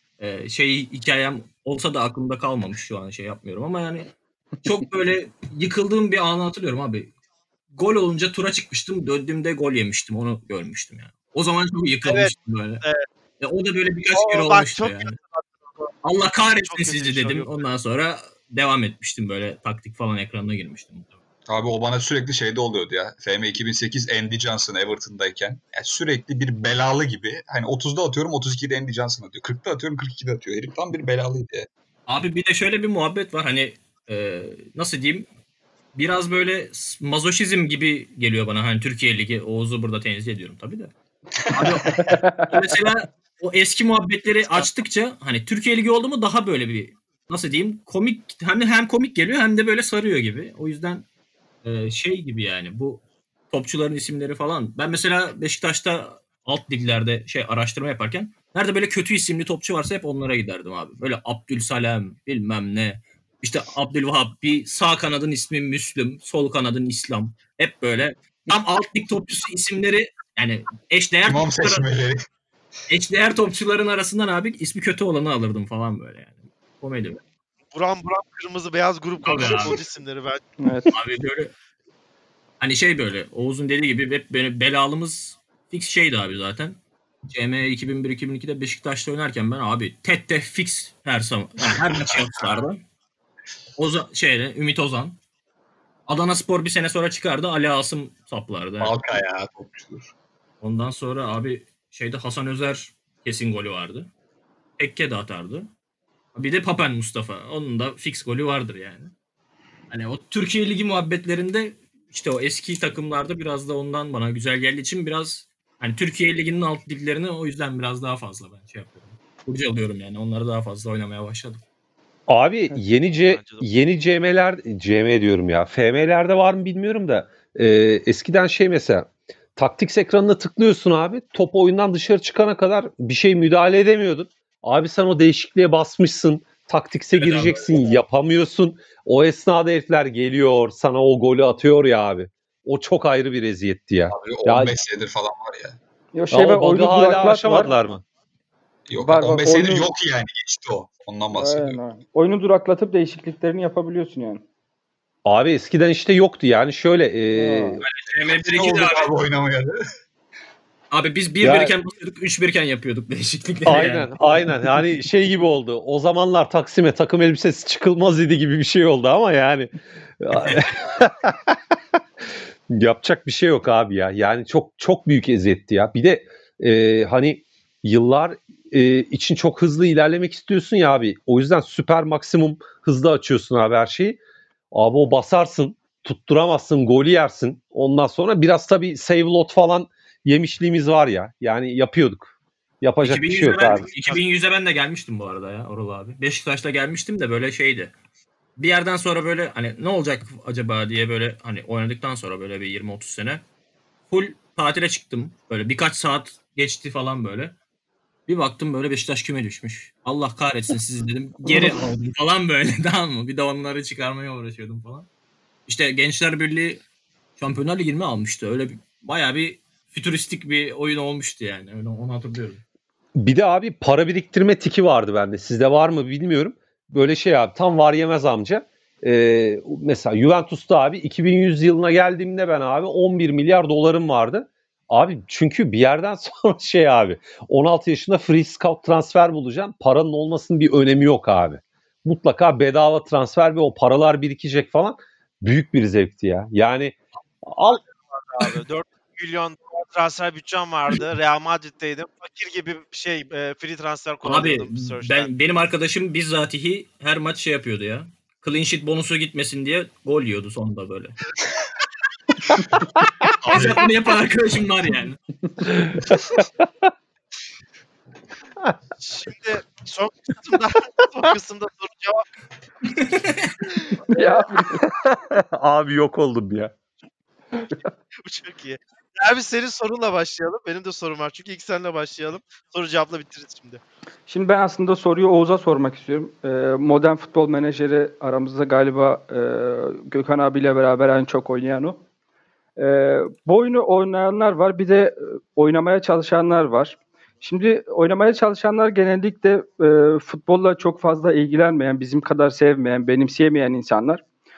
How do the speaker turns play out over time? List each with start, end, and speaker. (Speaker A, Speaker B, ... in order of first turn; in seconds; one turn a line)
Speaker A: 0.2-7.1
Speaker A: 7.7-12.8
Speaker B: 12.1-13.0
Speaker A: 13.4-15.2
Speaker B: 14.1-15.9
Speaker A: 16.0-21.1
Speaker B: 16.6-17.6
Speaker C: 21.5-31.7
Speaker A: 32.1-35.3
Speaker A: 35.9-40.9
Speaker C: 41.5-42.1
Speaker A: 41.5-51.0
Speaker D: 41.8-42.6
Speaker A: 51.6-71.8
Speaker C: 71.2-72.2
Speaker A: 72.9-77.2
Speaker B: 77.7-80.4
Speaker A: 79.2-79.8
Speaker D: 80.6-80.9
Speaker A: 80.9-81.5
Speaker A: 82.6-92.8
Speaker C: 91.8-92.6
Speaker A: 93.8-95.2
Speaker A: 96.1-99.0
Speaker C: 98.8-100.1
Speaker A: 100.6-104.1
Speaker A: 104.8-105.7
Speaker A: 106.3-109.1
Speaker A: 109.9-121.6
Speaker E: 122.3-144.7
Speaker B: 123.2-123.7
Speaker A: 137.2-137.7
Speaker C: 144.1-145.8
Speaker D: 146.1-147.7
Speaker E: 146.3-148.0
Speaker C: 148.9-151.8
Speaker D: 149.0-149.9
Speaker D: 151.3-154.4
Speaker E: 155.2-157.8
Speaker D: 157.3-157.8
Speaker A: 157.8-159.1
Speaker C: 158.4-159.8
Speaker A: 160.9-164.1
Speaker E: 161.4-161.7
Speaker E: 163.6-171.5
Speaker A: 170.3-170.6
Speaker E: 172.7-184.2
Speaker E: 184.7-193.8
Speaker A: 193.0-197.9
Speaker B: 193.7-194.2
Speaker A: 198.6-203.4
Speaker A: 204.1-207.6
Speaker A: 208.3-215.1
Speaker A: 215.7-216.8
Speaker A: 217.4-222.6
Speaker E: 223.2-247.8
Speaker B: 247.8-255.3
Speaker A: 254.2-261.2
Speaker C: 263.4-263.9
Speaker A: 263.4-265.2
Speaker E: 265.7-266.6
Speaker B: 269.0-272.3
Speaker A: 272.9-273.5
Speaker D: 274.1-274.9
Speaker E: 274.8-276.8
Speaker B: 278.2-283.8
Speaker D: 284.3-292.0
Speaker D: 292.8-304.2